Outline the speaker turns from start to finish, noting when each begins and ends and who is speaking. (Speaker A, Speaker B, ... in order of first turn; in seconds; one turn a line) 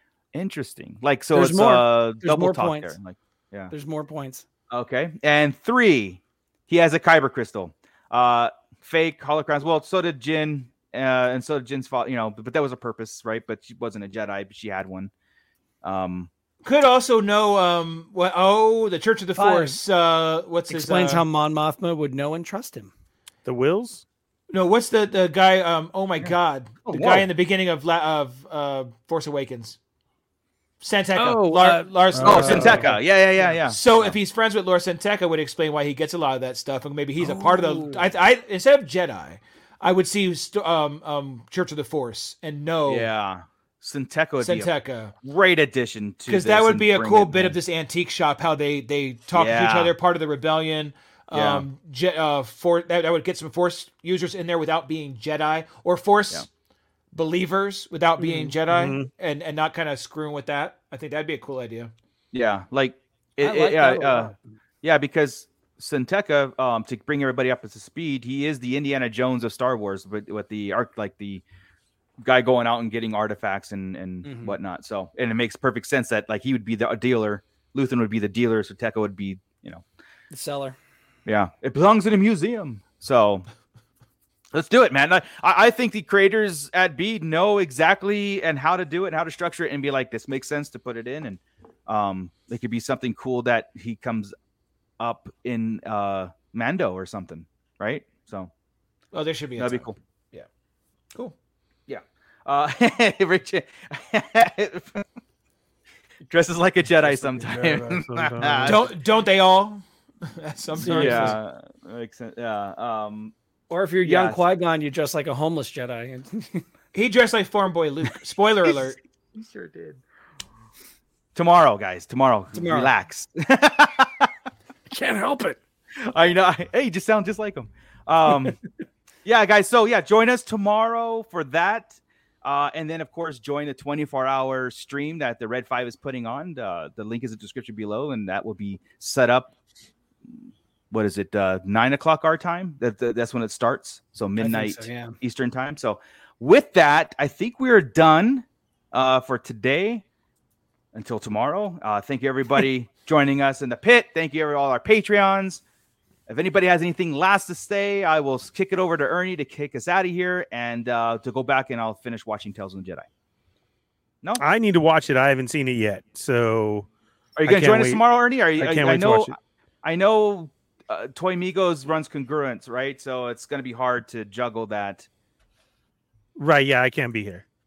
Speaker A: 0.3-3.7
Speaker B: 1.3-3.0
Speaker B: 3.7-4.4
Speaker A: 4.7-15.1
Speaker A: 15.8-16.3
Speaker C: 16.6-21.2
Speaker B: 19.4-19.8
Speaker B: 20.7-22.9
Speaker D: 23.4-24.0
Speaker C: 24.5-29.8
Speaker A: 26.9-27.3
Speaker C: 30.8-43.1
Speaker B: 31.2-32.9
Speaker A: 32.2-34.2
Speaker B: 37.2-38.1
Speaker A: 42.9-44.7
Speaker C: 44.4-45.1
Speaker A: 45.2-47.5
Speaker C: 46.3-56.5
Speaker A: 49.3-49.9
Speaker A: 51.3-51.6
Speaker C: 57.1-61.9
Speaker B: 58.2-58.5
Speaker D: 58.7-59.1
Speaker A: 62.3-71.4
Speaker B: 63.4-64.5
Speaker A: 72.2-79.8
Speaker B: 74.2-74.6
Speaker B: 80.3-80.8
Speaker A: 81.3-83.5
Speaker A: 84.5-94.3
Speaker A: 95.0-98.5
Speaker C: 99.1-100.5
Speaker A: 99.6-100.0
Speaker A: 101.9-105.0
Speaker A: 106.3-108.9
Speaker D: 107.0-108.9
Speaker C: 108.6-111.4
Speaker B: 110.8-111.4
Speaker A: 110.8-113.3
Speaker B: 113.7-116.7
Speaker A: 114.0-114.4
Speaker C: 116.9-119.0
Speaker A: 119.4-120.0
Speaker A: 121.3-124.3
Speaker B: 122.5-122.9
Speaker B: 124.9-125.6
Speaker A: 126.1-128.6
Speaker A: 129.2-139.5
Speaker A: 140.9-150.0
Speaker B: 144.4-145.2
Speaker A: 150.9-155.6
Speaker A: 156.3-163.1
Speaker D: 164.4-166.9
Speaker A: 167.4-175.1
Speaker D: 167.4-168.0
Speaker D: 168.6-169.3
Speaker D: 176.4-177.4